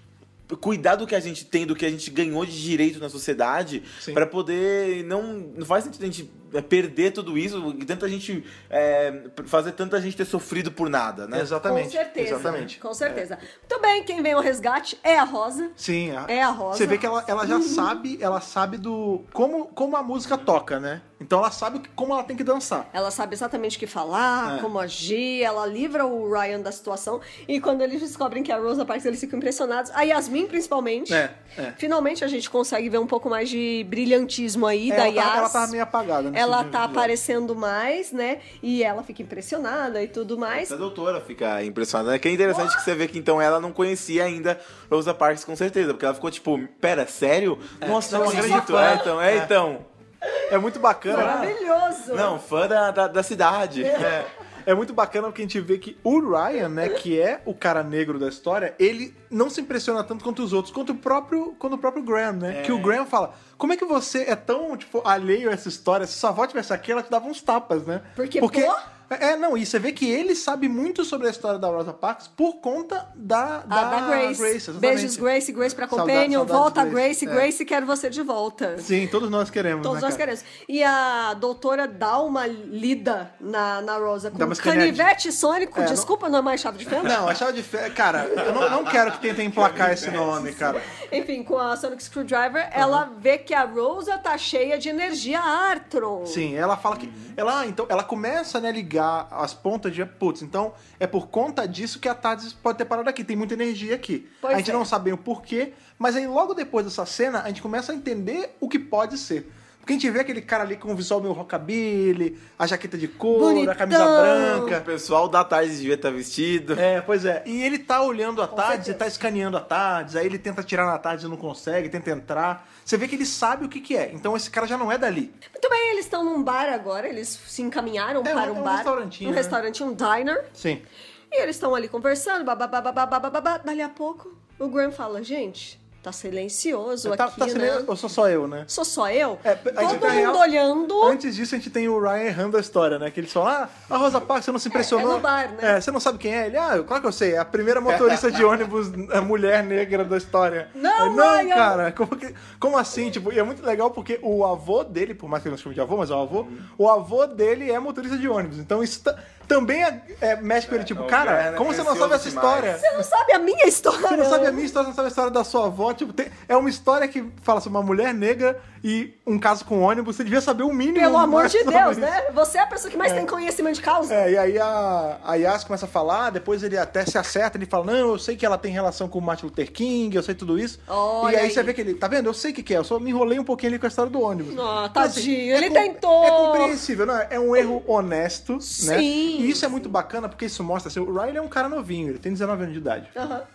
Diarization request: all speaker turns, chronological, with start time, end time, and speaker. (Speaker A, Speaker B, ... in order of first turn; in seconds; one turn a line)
Speaker A: 0.5-11.5
Speaker B: 11.3-13.2
Speaker C: 11.6-15.7
Speaker A: 12.4-12.7
Speaker B: 15.8-22.9
Speaker C: 16.3-17.9
Speaker C: 22.9-35.7
Speaker B: 24.4-24.7
Speaker B: 31.1-31.8
Speaker B: 34.9-37.1
Speaker C: 36.3-40.7
Speaker A: 40.5-49.9
Speaker C: 42.5-42.8
Speaker B: 47.8-49.5
Speaker C: 48.0-49.0
Speaker B: 50.5-51.5
Speaker C: 51.1-52.4
Speaker A: 51.1-51.5
Speaker A: 52.1-54.3
Speaker C: 53.8-54.2
Speaker B: 53.9-75.3
Speaker A: 62.5-63.0
Speaker C: 68.2-68.8
Speaker C: 73.7-78.9
Speaker B: 75.8-77.5
Speaker B: 78.8-80.2
Speaker C: 79.8-87.3
Speaker B: 84.3-85.1
Speaker B: 85.7-86.1
Speaker B: 87.0-90.8
Speaker A: 89.5-90.7
Speaker C: 90.4-96.5
Speaker B: 92.8-93.0
Speaker B: 96.2-114.8
Speaker A: 97.0-97.3
Speaker C: 104.4-104.9
Speaker C: 113.3-114.8
Speaker A: 114.5-116.8
Speaker B: 116.8-125.3
Speaker C: 118.5-119.0
Speaker C: 125.5-130.5
Speaker B: 128.2-129.6
Speaker B: 130.6-130.8
Speaker C: 131.3-137.9
Speaker B: 137.0-138.7
Speaker C: 138.7-141.2
Speaker B: 139.4-162.9
Speaker C: 144.7-145.8
Speaker C: 150.7-151.8
Speaker A: 160.7-162.8
Speaker C: 162.7-164.7
Speaker B: 164.1-172.2
Speaker C: 170.9-174.3
Speaker B: 173.0-173.3
Speaker B: 174.1-193.1
Speaker C: 180.9-181.7
Speaker C: 184.5-186.8
Speaker C: 188.6-189.9
Speaker C: 193.1-193.4